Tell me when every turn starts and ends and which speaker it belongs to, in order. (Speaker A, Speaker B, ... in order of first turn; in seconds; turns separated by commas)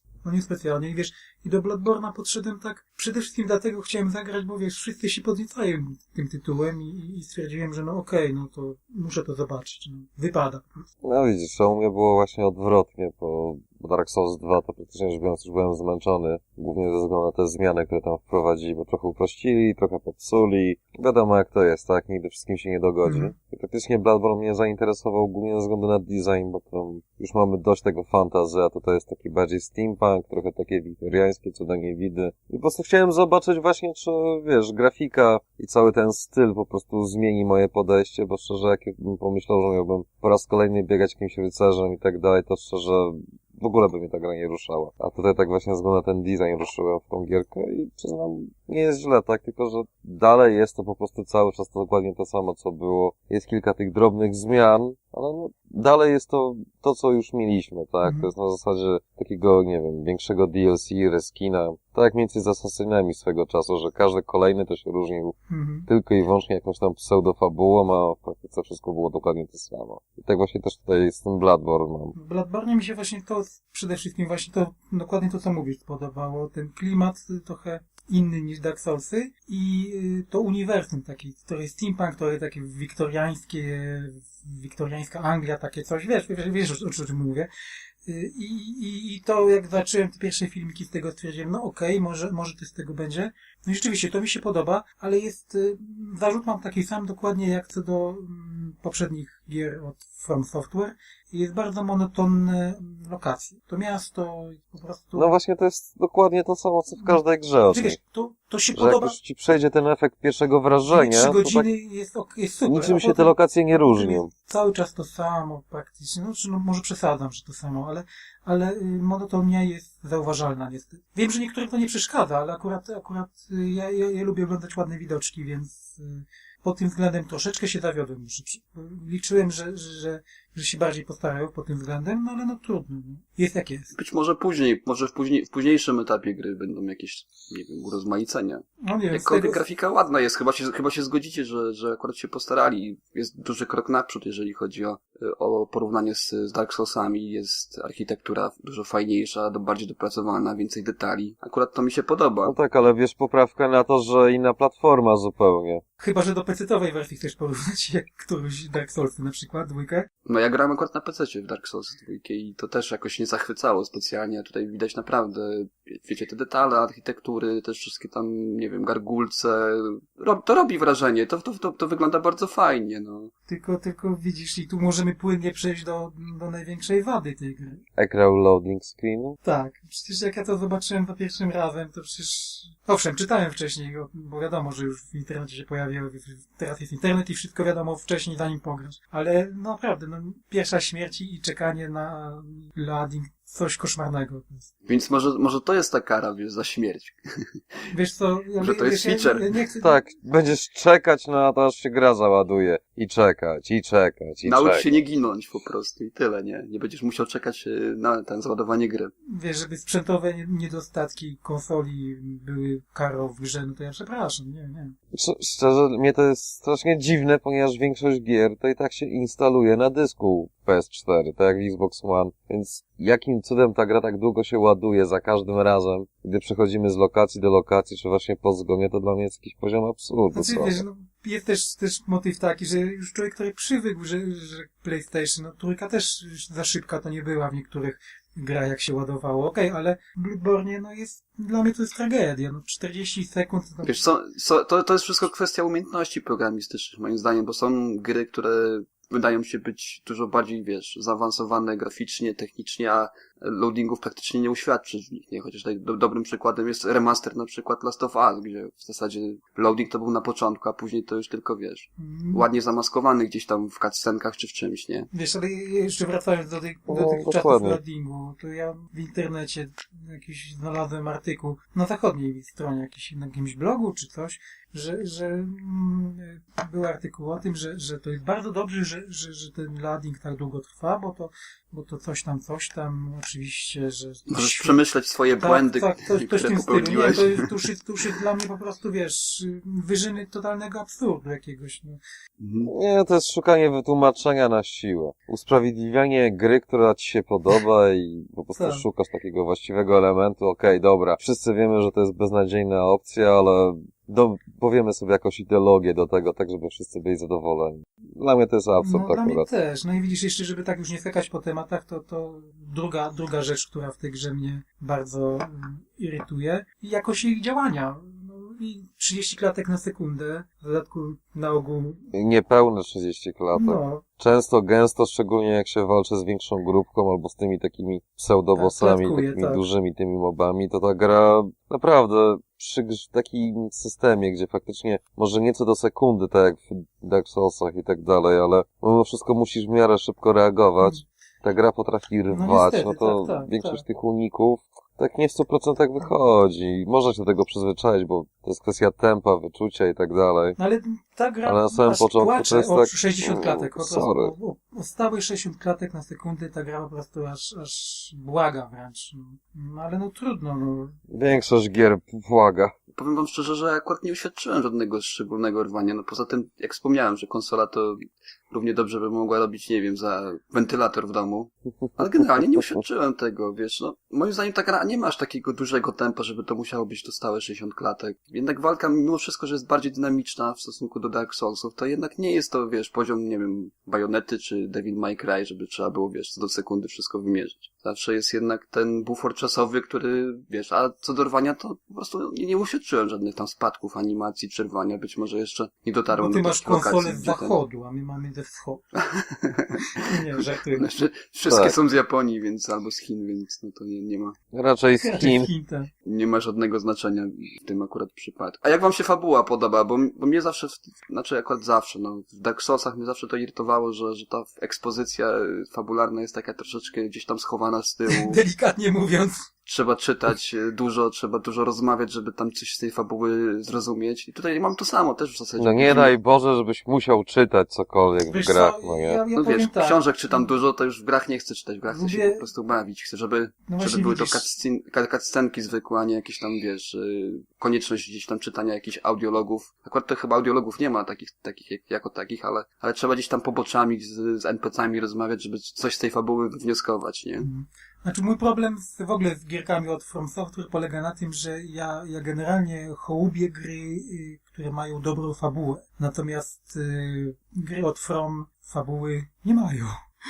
Speaker A: 0.2-10.8, Speaker B: 11.0-65.3, Speaker A: 23.0-23.3, Speaker A: 65.5-65.9, Speaker B: 65.9-72.1, Speaker A: 72.1-87.5, Speaker A: 88.0-105.3, Speaker B: 105.2-108.0, Speaker A: 107.0-109.2, Speaker B: 108.7-111.7, Speaker A: 110.9-133.9, Speaker B: 112.6-114.3, Speaker C: 133.9-152.5, Speaker A: 138.8-139.6, Speaker B: 152.4-155.8, Speaker A: 156.0-160.1, Speaker C: 160.3-173.3, Speaker A: 173.5-177.8, Speaker B: 178.0-179.4, Speaker A: 179.4-194.7, Speaker C: 194.8-197.2, Speaker A: 197.9-200.0, Speaker C: 198.6-199.6, Speaker B: 199.8-204.9, Speaker C: 204.4-209.1, Speaker A: 209.3-214.9, Speaker B: 215.1-230.8, Speaker A: 230.3-244.0, Speaker C: 243.8-265.1, Speaker A: 262.0-262.5, Speaker A: 265.1-292.0, Speaker B: 266.9-267.8, Speaker C: 284.3-287.5, Speaker C: 292.4-292.7, Speaker B: 292.6-309.5, Speaker A: 298.5-298.8, Speaker A: 308.8-322.0, Speaker B: 322.1-350.6, Speaker A: 323.5-324.0, Speaker A: 328.5-329.6, Speaker A: 342.3-343.8, Speaker A: 350.6-360.9, Speaker B: 351.4-354.3, Speaker B: 361.1-362.7, Speaker C: 362.9-367.9, Speaker C: 368.5-397.6, Speaker A: 396.1-398.8, Speaker C: 399.1-399.8, Speaker A: 400.0-400.8, Speaker C: 400.7-404.3, Speaker B: 401.5-401.7, Speaker B: 404.5-405.5, Speaker A: 405.0-405.9, Speaker C: 406.1-418.4, Speaker A: 418.1-419.3, Speaker C: 419.6-426.1, Speaker B: 425.6-429.2, Speaker A: 428.2-430.5, Speaker C: 429.4-447.5, Speaker A: 431.9-432.4, Speaker A: 433.7-434.4, Speaker A: 447.4-459.9